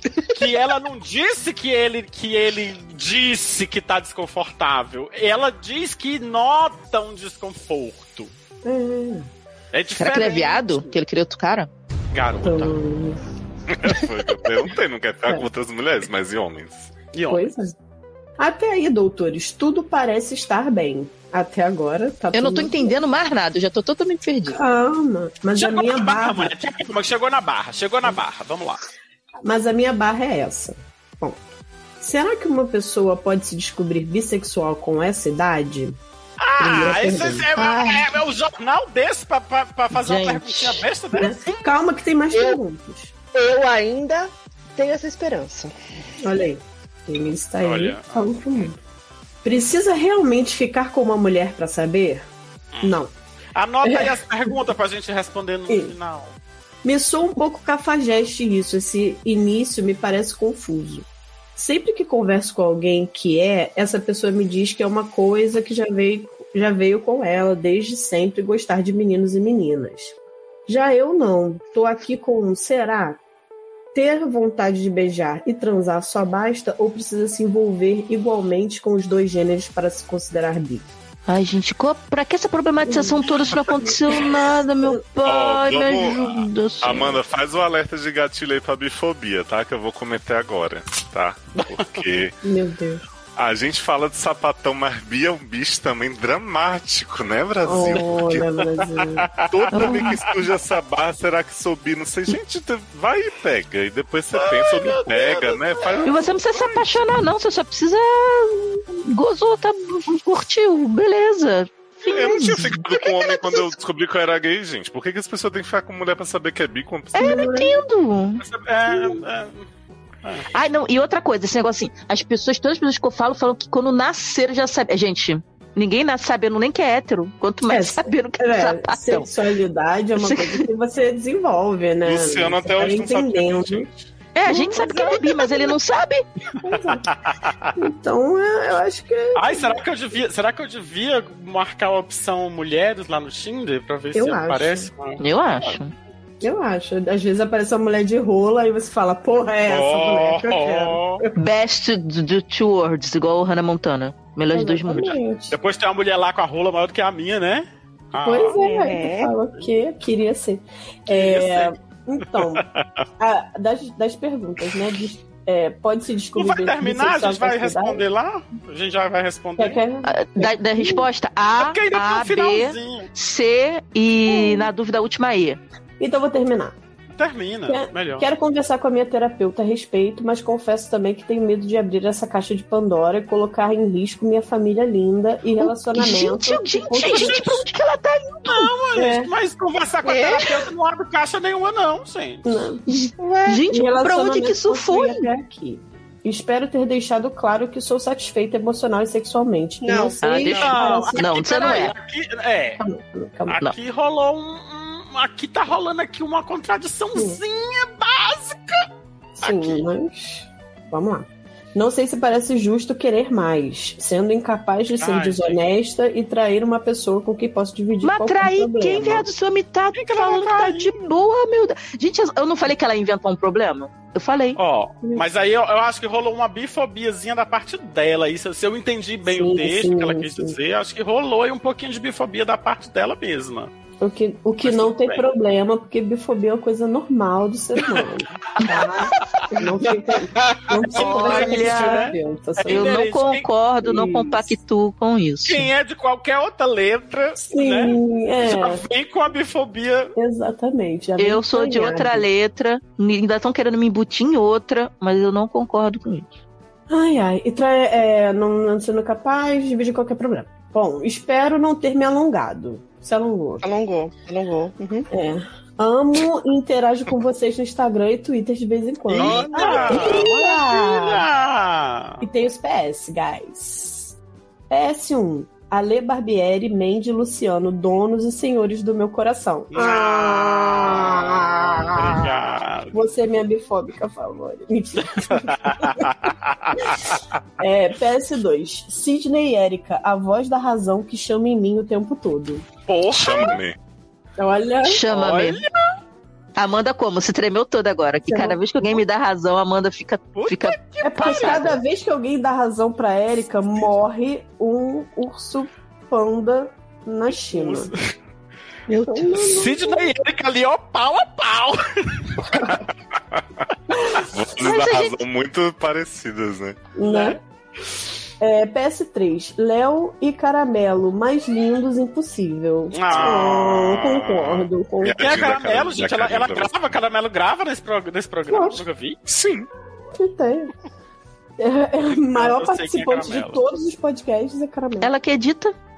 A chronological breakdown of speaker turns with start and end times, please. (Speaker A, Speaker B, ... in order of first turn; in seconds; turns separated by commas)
Speaker A: 0.3-8.3, Speaker B: 8.6-9.3, Speaker A: 9.7-10.9, Speaker C: 10.0-11.7, Speaker A: 12.1-12.7, Speaker B: 12.4-13.2, Speaker D: 13.7-16.9, Speaker A: 17.1-17.5, Speaker B: 17.3-17.8, Speaker B: 18.4-23.0, Speaker C: 22.3-24.6, Speaker B: 24.5-26.6, Speaker A: 25.6-28.8, Speaker B: 29.4-31.4, Speaker B: 32.0-36.0, Speaker A: 36.4-41.5, Speaker B: 36.6-38.1, Speaker C: 39.9-40.8, Speaker B: 41.1-43.1, Speaker E: 43.3-45.7, Speaker B: 46.2-48.8, Speaker A: 47.6-48.7, Speaker B: 49.4-52.3, Speaker B: 52.8-53.1, Speaker A: 53.5-56.4, Speaker B: 53.8-54.6, Speaker B: 55.7-55.9, Speaker B: 56.8-70.1, Speaker B: 70.7-73.2, Speaker B: 73.9-80.9, Speaker C: 81.3-87.2, Speaker B: 82.9-85.0, Speaker D: 85.2-92.4, Speaker A: 91.8-92.0, Speaker B: 92.4-93.0, Speaker D: 93.4-98.5, Speaker B: 97.6-99.3, Speaker A: 98.8-100.4, Speaker D: 99.5-106.3, Speaker C: 99.7-100.1, Speaker A: 104.3-106.9, Speaker C: 106.0-112.8, Speaker D: 112.0-117.5, Speaker C: 117.1-118.4, Speaker B: 117.2-117.8, Speaker A: 118.4-119.7, Speaker B: 118.9-119.2, Speaker A: 120.2-120.5, Speaker C: 120.5-129.3, Speaker B: 127.7-133.9, Speaker C: 130.2-130.7, Speaker D: 132.0-133.9, Speaker C: 134.3-136.2, Speaker B: 134.4-135.8, Speaker B: 136.6-137.1, Speaker A: 137.1-137.7, Speaker B: 137.8-139.8, Speaker A: 139.3-145.2, Speaker B: 144.1-144.9, Speaker C: 145.2-145.9, Speaker B: 146.4-151.2, Speaker A: 149.7-151.2, Speaker C: 151.4-155.1, Speaker B: 154.5-155.6, Speaker A: 154.9-158.6, Speaker B: 158.2-162.7, Speaker E: 158.6-159.3, Speaker A: 161.1-161.7, Speaker A: 162.4-162.8, Speaker B: 163.2-168.0, Speaker A: 166.4-169.8, Speaker B: 169.6-171.1, Speaker C: 170.1-175.6, Speaker A: 171.6-173.1, Speaker B: 174.2-174.7, Speaker B: 176.0-176.8, Speaker A: 177.1-178.3, Speaker B: 177.7-187.6, Speaker C: 185.6-188.7, Speaker A: 187.0-187.5, Speaker A: 188.5-192.5, Speaker B: 188.9-189.3, Speaker E: 190.1-190.7, Speaker B: 192.5-193.1, Speaker C: 192.9-195.3, Speaker E: 193.2-193.7, Speaker B: 193.7-201.2, Speaker E: 199.8-200.5, Speaker C: 200.2-201.9, Speaker A: 200.5-202.8, Speaker B: 202.8-203.6, Speaker A: 203.5-208.8, Speaker B: 207.1-207.4, Speaker B: 209.4-219.3, Speaker A: 209.4-209.8, Speaker A: 215.0-215.6, Speaker C: 218.0-224.6, Speaker A: 219.9-220.9, Speaker A: 224.6-233.7, Speaker B: 229.2-230.6, Speaker B: 234.0-243.0, Speaker A: 234.6-235.2, Speaker A: 238.6-239.7, Speaker A: 240.9-243.5, Speaker C: 241.0-242.1, Speaker C: 242.7-245.7, Speaker B: 243.8-244.6, Speaker A: 245.4-250.1, Speaker B: 247.4-248.8, Speaker B: 250.2-252.3, Speaker C: 251.2-256.4, Speaker B: 256.9-263.6, Speaker E: 263.6-265.1, Speaker B: 265.1-271.3, Speaker A: 269.1-272.2, Speaker E: 269.1-270.2, Speaker B: 272.2-274.1, Speaker B: 274.7-282.4, Speaker A: 279.7-282.9, Speaker B: 282.9-292.6, Speaker A: 285.7-286.0, Speaker A: 292.9-293.6, Speaker D: 293.1-293.8, Speaker B: 294.4-295.0, Speaker C: 294.9-295.6, Speaker A: 295.1-295.8, Speaker C: 296.6-301.8, Speaker B: 298.3-299.0, Speaker A: 300.4-301.7, Speaker B: 301.0-307.9, Speaker A: 307.3-308.1, Speaker E: 308.9-309.6, Speaker B: 309.1-310.1, Speaker A: 309.4-312.4, Speaker B: 312.5-312.8, Speaker D: 313.1-313.4, Speaker B: 314.0-314.3, Speaker D: 314.2-316.8, Speaker C: 314.6-315.2, Speaker B: 316.9-317.4, Speaker A: 317.0-317.4, Speaker B: 318.4-325.4, Speaker A: 322.9-323.8, Speaker D: 323.1-326.8, Speaker A: 325.2-329.2, Speaker B: 328.5-328.8, Speaker D: 329.3-329.7, Speaker B: 330.2-330.7, Speaker B: 331.6-335.1, Speaker A: 332.3-333.6, Speaker C: 335.0-335.8